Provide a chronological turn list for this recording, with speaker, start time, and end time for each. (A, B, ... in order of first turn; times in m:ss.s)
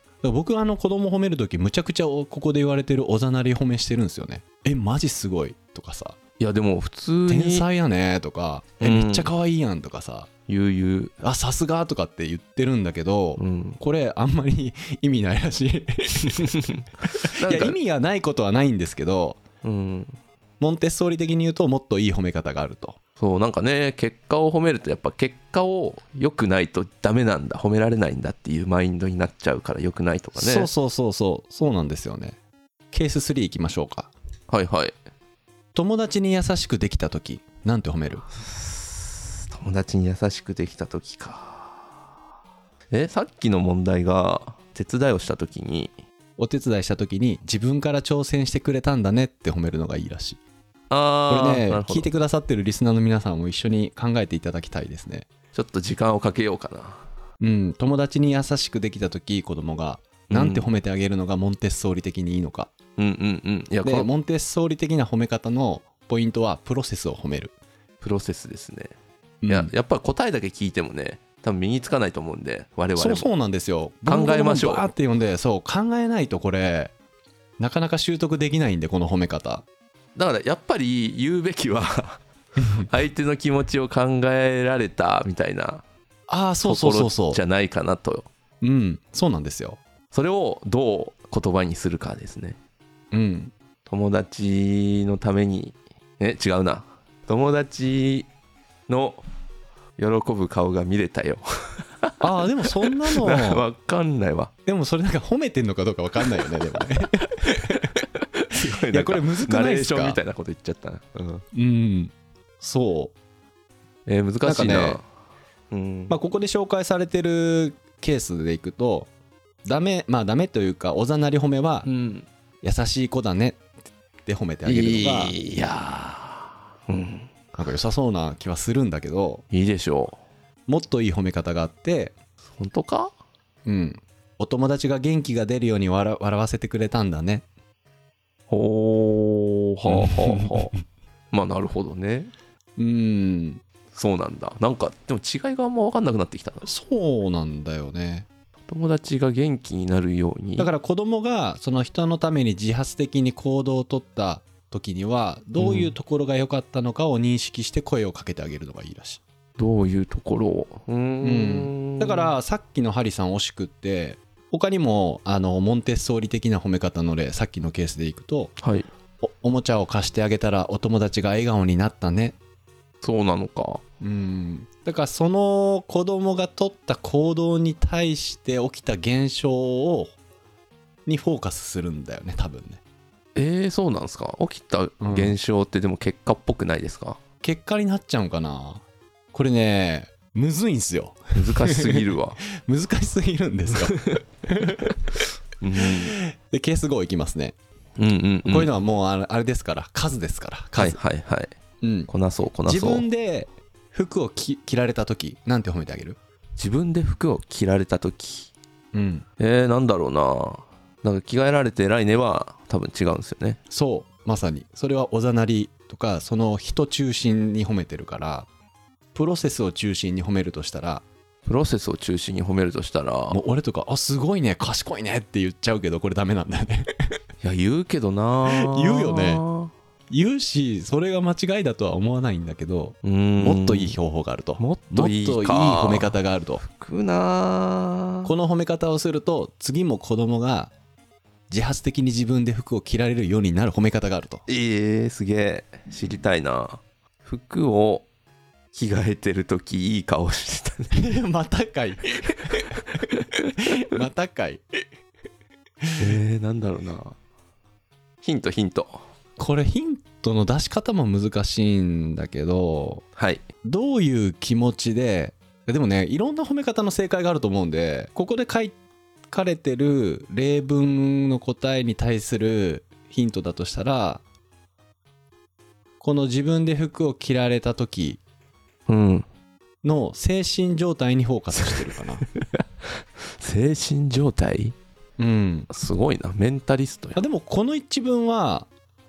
0:00.2-0:06.2 A
0:06.4-0:07.7 B
0:07.3-0:10.3 A
0:08.8-0:09.3 B
0:10.5-0:11.1 B
0:11.2-0:16.5 A
0:13.4-0:13.8 B
0:16.4-0:17.8 B
0:17.2-0:19.4 A
0:19.6-0:20.2 B
0:20.6-0:23.0 A
0:23.2-0:30.7 B
0:30.4-0:32.4 A
0:32.9-0:34.1 A
0:34.5-0:34.9 B
0:35.8-0:38.2 A
0:38.4-0:41.9 B
0:42.9-0:45.9 B
0:46.4-0:50.4 A
0:50.9-0:52.1 B
0:51.3-0:55.3 A
0:55.5-0:57.0 B
0:57.4-1:02.7 A
1:00.3-1:00.7 B
1:03.0-1:04.1 B
1:03.8-1:07.5 A
1:08.0-1:08.9 B
1:09.4-1:09.7 A
1:09.5-1:13.3 B
1:13.0-1:16.9 A
1:14.1-1:14.9 B
1:17.6-1:19.6 A
1:20.2-1:22.2 B
1:22.6-1:22.9 A
1:22.8-1:25.8 B
1:26.3-1:27.4 A
1:26.6-1:28.3 B
1:28.6-1:29.8 A
1:30.1-1:32.6 B
1:33.1-1:33.5 A
1:33.9-1:38.3 B
1:38.9-1:39.2 B
1:40.0-1:42.2 B
1:42.2-1:43.6 A
1:42.9-1:44.5 B
1:44.7-1:48.0 A
1:47.4-1:51.4 B
1:48.5-1:50.2 A
1:51.5-1:53.1 A
1:54.1-1:55.0 B
1:54.4-1:55.0 A
1:55.7-1:56.2 B
1:56.1-1:59.1 A
1:59.6-2:01.9 A
2:01.9-2:02.3 B
2:02.6-2:03.6 A
2:04.3-2:05.4 A
2:04.7-2:07.3 B
2:07.6-2:09.4 A
2:09.5-2:10.2 B
2:10.7-2:12.2 A
2:12.5-2:13.1 B
2:13.7-2:17.4 A
2:18.5-2:20.7 B
2:19.9-2:20.8 A
2:21.3-2:22.3 B
2:22.8-2:23.6 A
2:23.9-2:26.6 B
2:26.6-2:28.3 A
2:28.7-2:30.7 B
2:30.6-2:39.2 A
2:35.6-2:36.0 B
2:39.6-2:42.3 B
2:41.2-2:48.5 A
2:48.6-2:48.9 B
2:49.2-2:52.4 A
2:53.0-2:53.8 B
2:54.0-3:00.1 A
3:01.1-3:02.8 A
3:03.4-3:07.2 B
3:05.0-3:05.4 A
3:07.4-3:15.0 A
3:11.4-3:12.4 B
3:13.8-3:14.2 B
3:15.6-3:16.2 B
3:15.8-3:17.6 A
3:18.0-3:18.7 B
3:18.4-3:21.0 A
3:20.8-3:21.5 B
3:21.8-3:22.1 A
3:22.1-3:23.1 B
3:22.7-3:26.2 A
3:26.6-3:28.5 B
3:28.9-3:29.3 A
3:29.4-3:33.6 B
3:33.7-3:38.5 A
3:39.2-3:41.0 A
3:41.5-3:43.4 B
3:43.3-3:46.9 A
3:47.4-3:49.7 B
3:48.5-3:49.4 A
3:50.1-3:56.6 A
3:53.0-3:54.0 B
3:54.6-3:58.3 B
3:58.2-4:00.7 A
4:01.5-4:04.4 A
4:04.5-4:08.1 B
4:08.7-4:11.0 B
4:10.9-4:14.6 A
4:16.0-4:17.2 B
4:18.2-4:19.0 B
4:19.4-4:23.0 A
4:23.2-4:23.4 B
4:23.6-4:28.8 A
4:29.3-4:34.2 A
4:36.0-4:38.2 A
4:38.9-4:39.3 B
4:39.8-4:42.2 A
4:41.6-4:44.8 B
4:45.2-4:45.7 A
4:45.7-4:47.2 B
4:47.2-4:48.7 A